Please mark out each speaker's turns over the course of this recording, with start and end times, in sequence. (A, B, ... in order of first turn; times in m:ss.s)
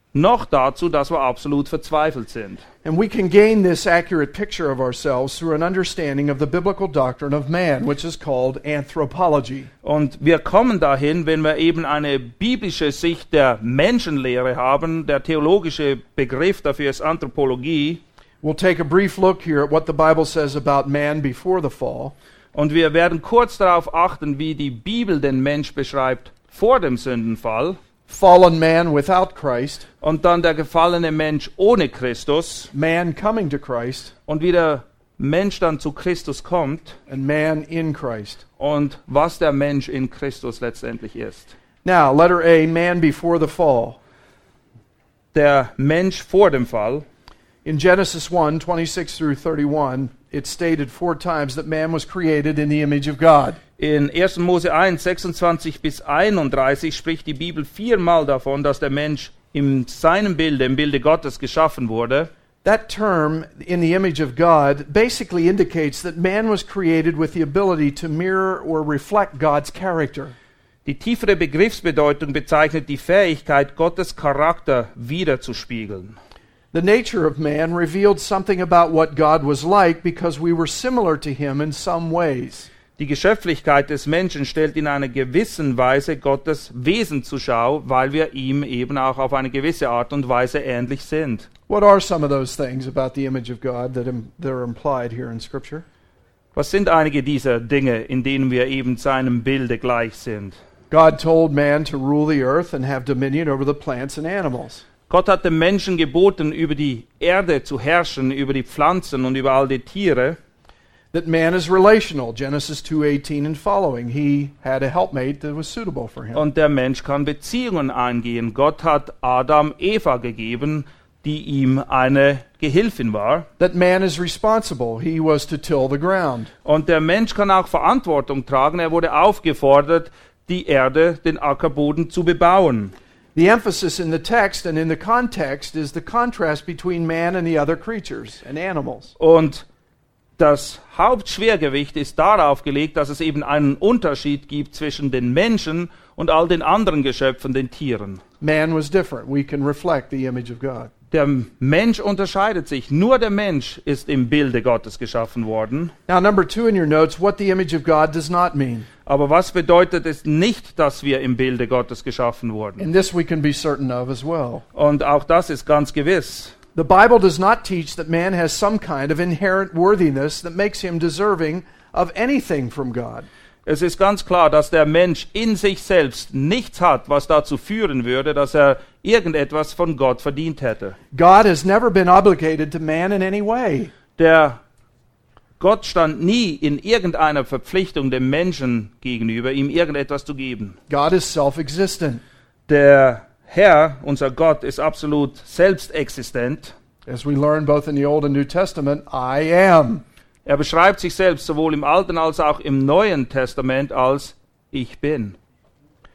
0:00.1-0:02.6 A
0:02.8-0:09.7 B
0:09.8-0:18.0 A
0:18.4-0:22.1 B
0:22.5-0:27.8 A
0:28.1-0:29.9 B
0:30.0-0:32.7 A
0:32.7-0:34.1 B
0:34.3-0:37.0 A
0:37.1-0:38.4 B
0:38.6-0:41.5 A
0:41.8-0:44.0 B
0:45.3-0:47.0 A
0:47.6-0:53.6 B
0:53.8-1:02.3 A
1:02.6-1:10.3 B
1:10.9-1:16.2 A
1:16.7-1:22.7 B
1:23.0-1:31.5 A
1:31.7-1:35.8 B
1:36.6-1:40.6 A
1:40.9-1:44.8 B
1:45.1-1:50.4 A
1:51.1-1:56.4 B
1:56.3-2:03.5 A
2:03.6-2:06.5 B
2:06.6-2:12.9 A
2:13.4-2:19.2 B
2:19.2-2:19.6 A
2:20.4-2:28.2 A
2:28.4-2:30.9 B
2:31.1-2:35.9 A
2:36.1-2:38.9 B
2:39.1-2:42.9 A
2:42.8-2:44.6 B
2:44.8-2:46.5 A
2:46.8-2:53.3 B
2:53.6-3:01.0 A
3:01.1-3:03.9 B
3:04.2-3:04.6 A
3:05.6-3:10.8 A
3:10.9-3:12.2 B
3:12.7-3:16.7 A
3:17.1-3:20.0 B
3:20.5-3:25.4 A